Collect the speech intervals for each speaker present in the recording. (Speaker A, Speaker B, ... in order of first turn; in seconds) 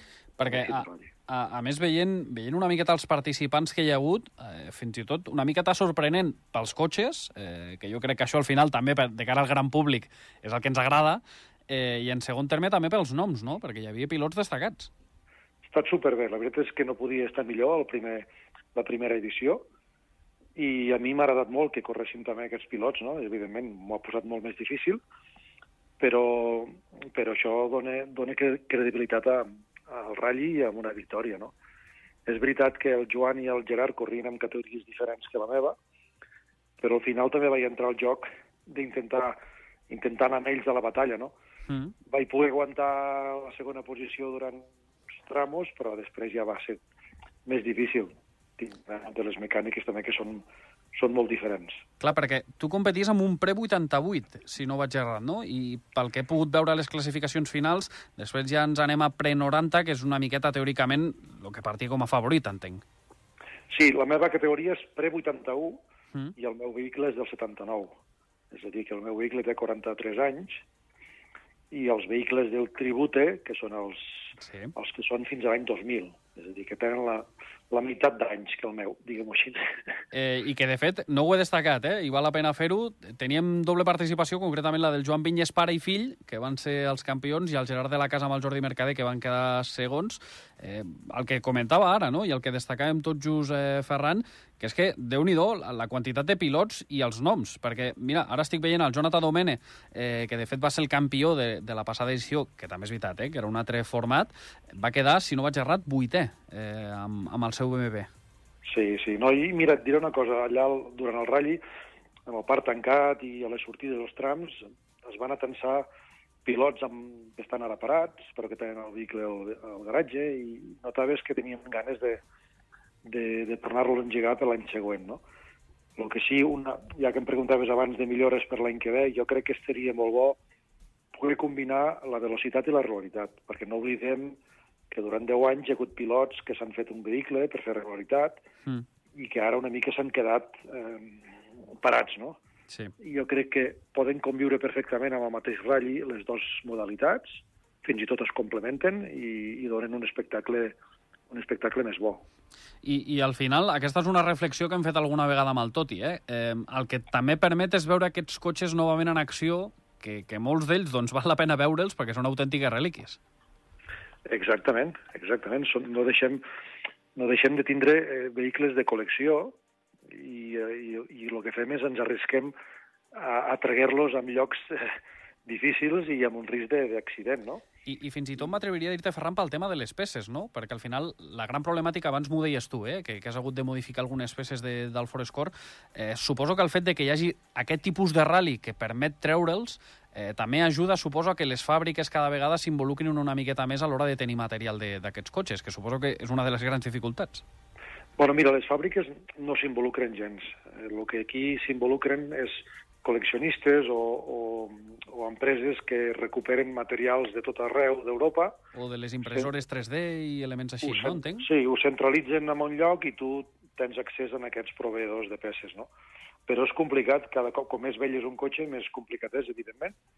Speaker A: 0.4-14.9, 41.7-41.9, 52.0-62.8, 74.4-74.7, 80.1-108.1, 152.8-163.2, 177.8-197.4, 208.7-211.5
Speaker B: 0.5-1.1, 15.6-19.6, 20.6-25.0, 26.0-31.5, 32.2-35.8, 36.8-39.4, 39.9-41.3, 42.1-44.7, 45.2-46.8, 47.5-51.8, 63.7-65.8, 66.3-68.0, 68.5-70.6, 71.7-79.7, 108.6-111.6, 112.3-115.9, 116.4-122.2, 123.0-125.2, 126.0-130.4, 131.1-134.4, 134.9-138.4, 139.1-142.4, 143.0-150.8, 151.3-152.2, 164.3-166.4, 167.1-169.6, 170.1-172.5, 173.1-177.6, 198.2-208.6, 209.2-209.5, 210.8-215.9, 216.5-219.9